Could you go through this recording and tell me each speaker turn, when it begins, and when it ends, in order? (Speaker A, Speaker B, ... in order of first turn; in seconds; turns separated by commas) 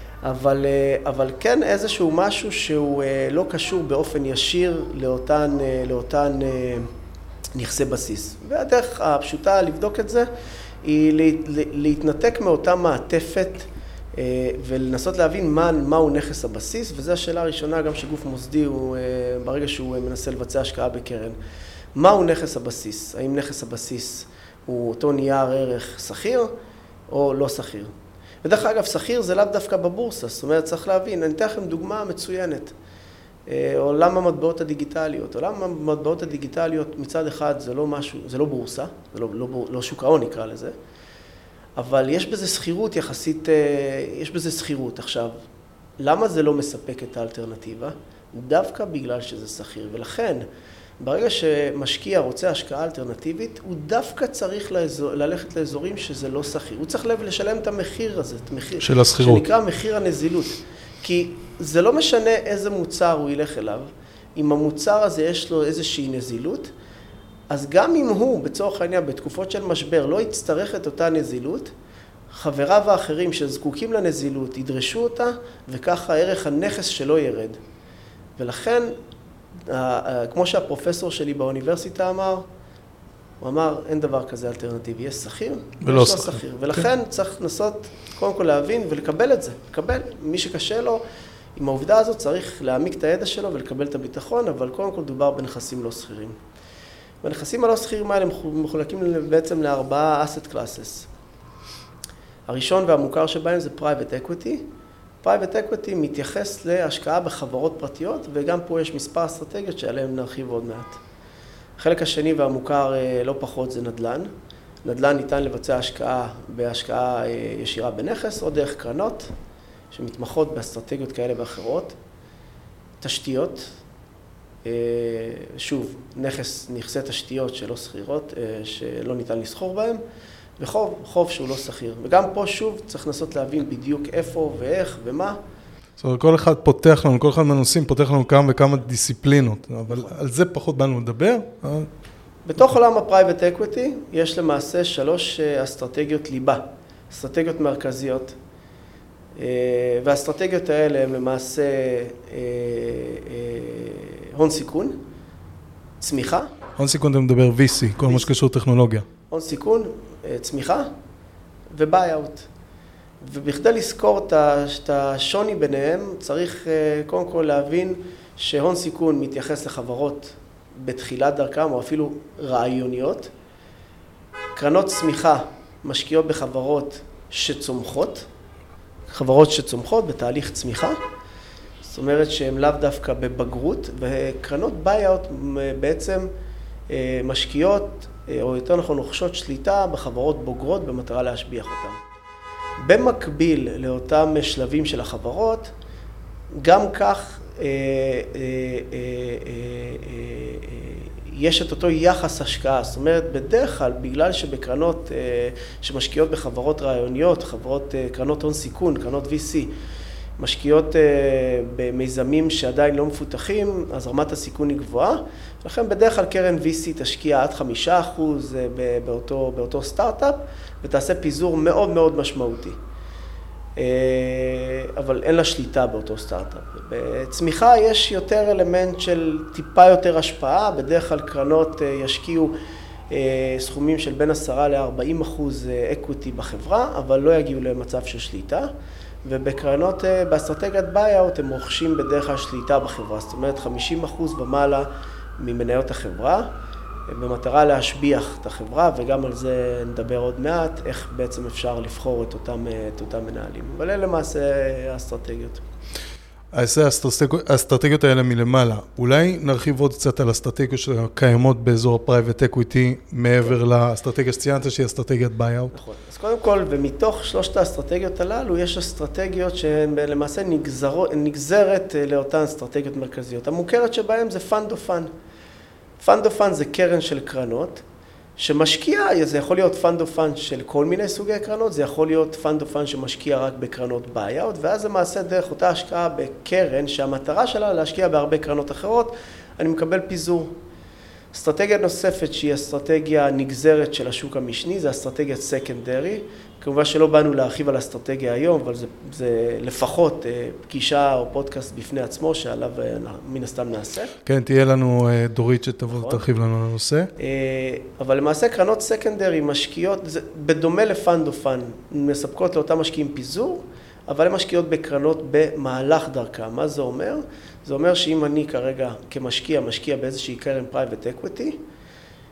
Speaker A: 0.2-6.9, Speaker A: 7.5-10.3, Speaker A: 10.8-21.4, Speaker A: 21.9-26.5, Speaker A: 27.1-27.9, Speaker A: 28.4-32.7, Speaker A: 33.5-40.8, Speaker A: 41.8-45.4, Speaker A: 46.0-50.5, Speaker A: 51.0-66.7, Speaker B: 58.8-59.4, Speaker A: 67.5-71.7, Speaker A: 72.3-77.6, Speaker A: 78.4-78.9, Speaker A: 79.7-82.5, Speaker A: 83.4-91.0, Speaker B: 85.8-86.4, Speaker A: 91.5-96.3, Speaker A: 97.2-101.1, Speaker A: 102.5-104.6, Speaker A: 105.2-111.0, Speaker A: 111.8-114.3, Speaker A: 114.8-119.3, Speaker A: 119.9-122.0, Speaker A: 123.0-123.7, Speaker A: 124.6-130.0, Speaker A: 130.6-135.4, Speaker B: 136.0-141.9, Speaker A: 139.9-140.1, Speaker A: 142.5-148.3, Speaker A: 149.3-155.0, Speaker A: 156.0-156.5, Speaker B: 156.8-159.1, Speaker A: 158.0-158.3, Speaker A: 159.3-160.9, Speaker A: 161.7-162.5, Speaker A: 163.2-173.3, Speaker A: 174.6-178.3, Speaker A: 179.1-181.0, Speaker A: 181.8-186.3, Speaker A: 186.9-192.0, Speaker A: 192.8-195.7, Speaker A: 196.6-209.7, Speaker A: 210.4-222.8, Speaker A: 223.8-232.5, Speaker A: 233.1-238.7, Speaker A: 239.2-244.9, Speaker A: 245.4-246.5, Speaker A: 247.1-255.6, Speaker B: 256.5-265.7, Speaker A: 265.7-275.1, Speaker A: 276.0-277.8, Speaker A: 278.4-290.5, Speaker A: 291.3-304.1, Speaker B: 304.2-307.1, Speaker A: 305.9-306.2, Speaker A: 307.2-321.6